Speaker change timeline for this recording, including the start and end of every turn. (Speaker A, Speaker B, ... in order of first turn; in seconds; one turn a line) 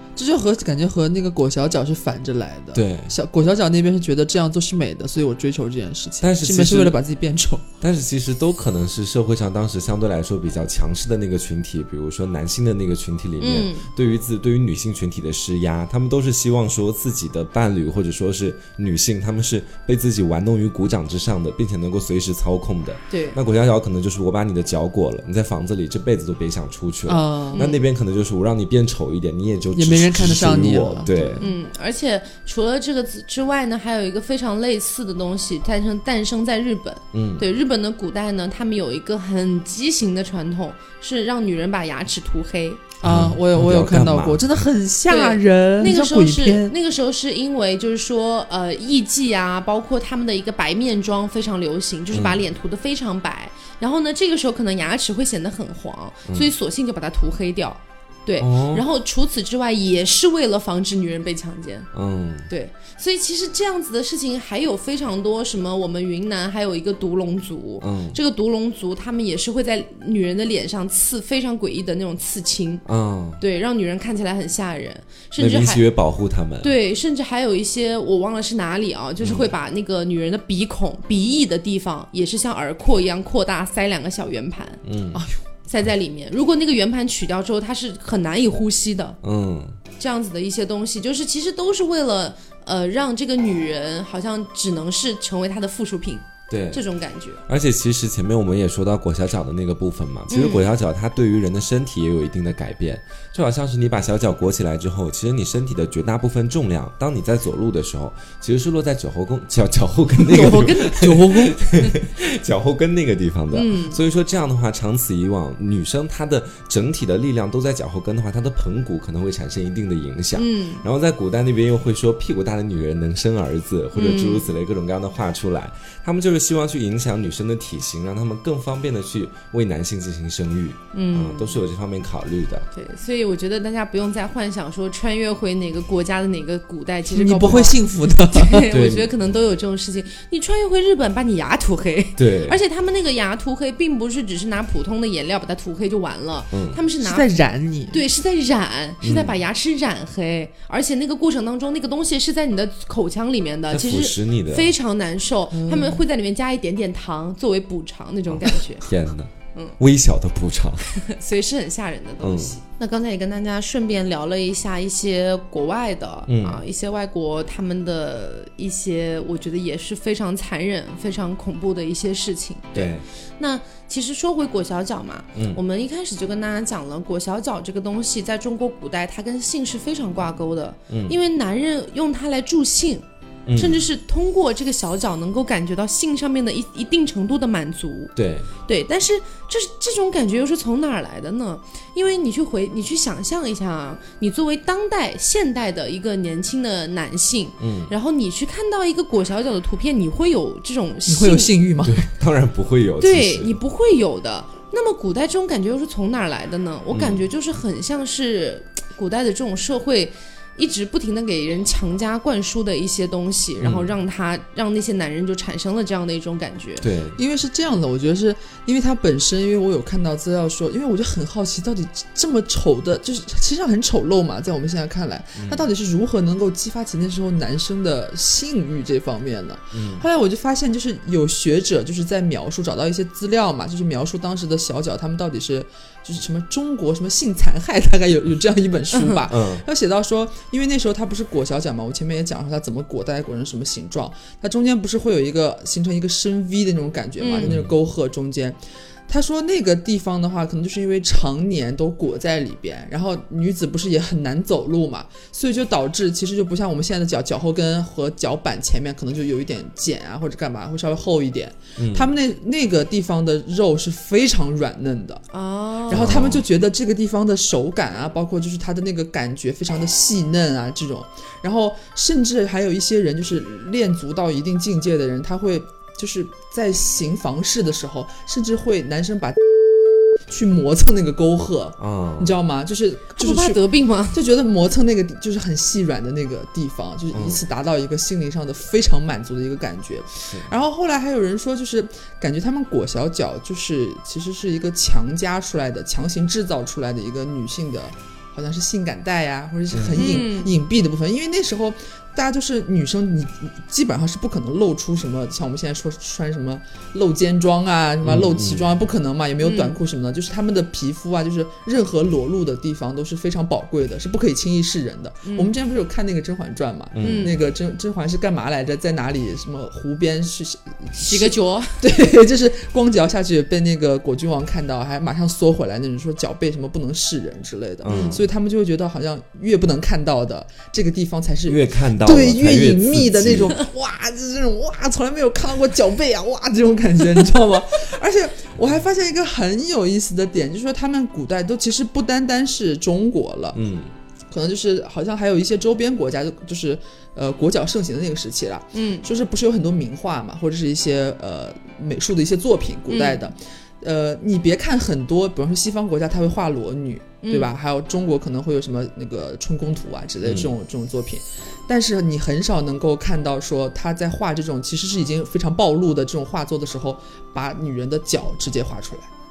Speaker A: 0.2-7.7
Speaker B: 2.7-3.2
Speaker B: 6.2-7.0
Speaker B: 7.8-31.5
Speaker C: 13.4-13.9
Speaker C: 23.1-23.4
Speaker A: 27.1-27.7
Speaker C: 27.5-27.8
Speaker A: 29.8-31.5
Speaker C: 31.4-42.8
Speaker B: 37.1-37.5
Speaker A: 43.0-46.8
Speaker B: 43.0-44.7
Speaker C: 45.1-61.9
Speaker B: 52.1-52.4
Speaker B: 58.4-58.8
Speaker B: 61.9-62.5
Speaker C: 62.5-72.8
Speaker B: 67.8-68.2
Speaker B: 72.9-73.4
Speaker C: 73.4-75.8
Speaker B: 75.4-76.7
Speaker C: 76.6-84.8
Speaker B: 79.2-79.5
Speaker B: 84.8-85.2
Speaker A: 85.1-85.4
Speaker C: 85.7-89.2
Speaker B: 89.2-89.8
Speaker C: 90.0-97.4
Speaker B: 96.5-96.8
Speaker B: 97.5-132.7
Speaker C: 100.3-100.7
Speaker C: 110.3-111.2
Speaker A: 110.3-111.6
Speaker C: 113.5-114.0
Speaker C: 120.3-120.8
Speaker C: 123.9-124.5
Speaker C: 130.9-131.6
Speaker C: 132.7-147.3
Speaker A: 137.1-138.7
Speaker B: 138.7-139.1
Speaker B: 142.2-142.6
Speaker B: 146.5-146.8
Speaker A: 147.0-148.0
Speaker C: 147.9-158.9
Speaker B: 149.0-149.4
Speaker B: 153.7-154.7
Speaker A: 155.5-156.0
Speaker B: 158.3-160.9
Speaker C: 160.9-188.1
Speaker B: 162.2-162.6
Speaker B: 166.3-166.6
Speaker B: 172.8-173.1
Speaker B: 175.3-175.6
Speaker B: 180.9-181.2
Speaker B: 183.5-183.8
Speaker B: 188.2-188.5
Speaker C: 188.7-201.5
Speaker B: 197.6-197.9
Speaker A: 201.1-202.1
Speaker B: 201.8-203.6
Speaker C: 203.0-216.9
Speaker B: 206.9-207.2
Speaker B: 213.6-213.9
Speaker B: 216.8-217.2
Speaker A: 217.2-265.2
Speaker B: 225.4-225.7
Speaker B: 229.7-230.1
Speaker C: 238.9-239.2
Speaker B: 239.3-239.7
Speaker C: 247.2-247.5
Speaker B: 247.4-247.7
Speaker B: 261.8-262.1
Speaker C: 265.3-266.2
Speaker A: 265.9-283.6
Speaker B: 265.9-266.4
Speaker B: 281.8-282.4
Speaker C: 283.2-284.2
Speaker A: 284.1-343.6
Speaker B: 287.1-287.4
Speaker B: 290.1-290.5
Speaker B: 299.7-300.3
Speaker C: 300.0-300.5
Speaker B: 308.0-308.7
Speaker C: 309.4-309.8
Speaker C: 315.2-315.5
Speaker B: 316.9-317.4
Speaker C: 317.0-317.4
Speaker C: 321.0-321.9
Speaker C: 327.8-328.2
Speaker B: 327.8-328.3
Speaker B: 331.5-333.6
Speaker B: 343.5-343.9
Speaker A: 344.3-369.1
Speaker C: 348.7-349.1
Speaker C: 352.9-353.3
Speaker C: 357.2-357.5
Speaker B: 360.2-360.5